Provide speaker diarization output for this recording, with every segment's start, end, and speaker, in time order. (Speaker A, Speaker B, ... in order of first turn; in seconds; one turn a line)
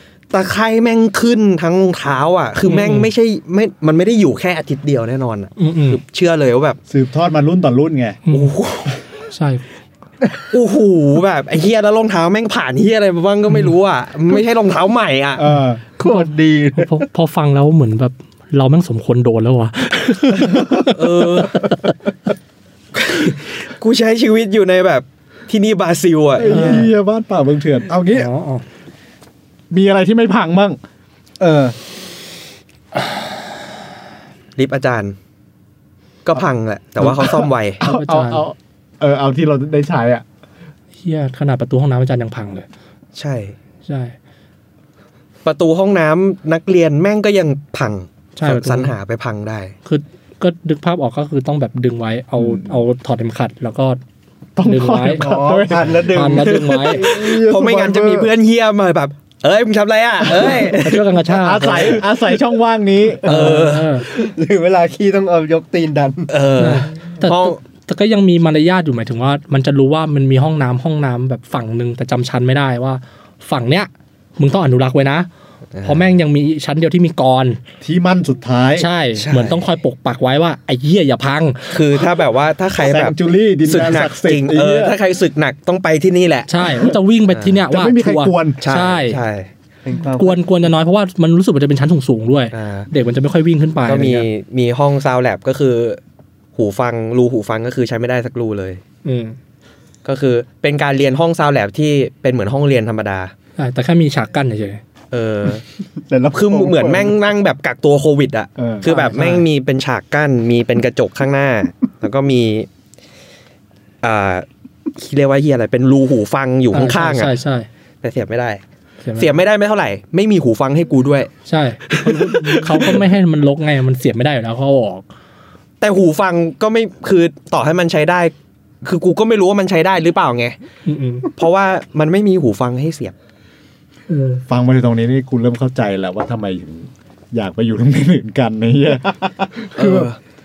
Speaker A: 0.3-6.8
Speaker B: 2.6-3.1
Speaker B: 5.6-6.0
Speaker C: 6.9-8.2
Speaker B: 8.3-8.6
Speaker A: 8.3-9.0
Speaker B: 9.3-9.7
Speaker A: 10.4-15.4
Speaker C: 15.4-15.8
Speaker B: 16.0-21.9
Speaker D: 16.0-17.0
Speaker C: 20.4-20.9
Speaker A: 20.9-21.7
Speaker A: 22.9-26.7
Speaker C: 26.4-28.3
Speaker B: 26.4-26.9
Speaker B: 28.1-28.6
Speaker C: 29.7-30.8
Speaker C: 31.4-31.7
Speaker A: 34.5-35.1
Speaker A: 36.2-37.8
Speaker C: 37.0-40.2
Speaker B: 37.8-38.4
Speaker B: 41.0-42.7
Speaker A: 43.1-43.5
Speaker B: 43.9-44.1
Speaker A: 45.4-49.7
Speaker B: 48.4-48.9
Speaker B: 49.9-54.0
Speaker C: 52.4-52.8
Speaker C: 54.5-56.3
Speaker B: 54.6-55.2
Speaker D: 55.1-58.3
Speaker B: 56.1-57.1
Speaker A: 56.3-61.1
Speaker B: 60.7-62.0
Speaker C: 61.3-63.6
Speaker D: 63.2-66.3
Speaker A: 63.2-63.9
Speaker B: 63.2-64.0
Speaker A: 66.3-67.6
Speaker B: 66.6-75.3
Speaker A: 75.7-76.2
Speaker B: 75.8-77.6
Speaker C: 77.8-78.9
Speaker B: 78.8-81.7
Speaker A: 79.2-79.7
Speaker A: 81.7-83.1
Speaker C: 82.8-85.0
Speaker A: 83.7-87.6
Speaker B: 86.5-89.2
Speaker C: 87.7-88.6
Speaker A: 88.6-89.5
Speaker D: 89.8-90.4
Speaker B: 90.2-94.3
Speaker A: 92.5-92.9
Speaker A: 93.9-96.0
Speaker A: 96.5-98.8
Speaker B: 99.0-99.4
Speaker A: 100.0-103.3
Speaker B: 103.6-104.8
Speaker A: 105.1-105.6
Speaker D: 106.0-107.2
Speaker A: 106.3-112.7
Speaker C: 108.6-108.9
Speaker B: 108.8-109.5
Speaker A: 114.0-117.3
Speaker B: 116.7-117.7
Speaker A: 118.0-118.6
Speaker B: 119.0-119.3
Speaker A: 119.2-121.3
Speaker B: 121.5-125.1
Speaker A: 121.9-123.0
Speaker A: 125.8-130.6
Speaker B: 130.8-131.3
Speaker A: 131.3-133.1
Speaker B: 134.1-134.4
Speaker C: 134.5-140.1
Speaker A: 139.7-140.2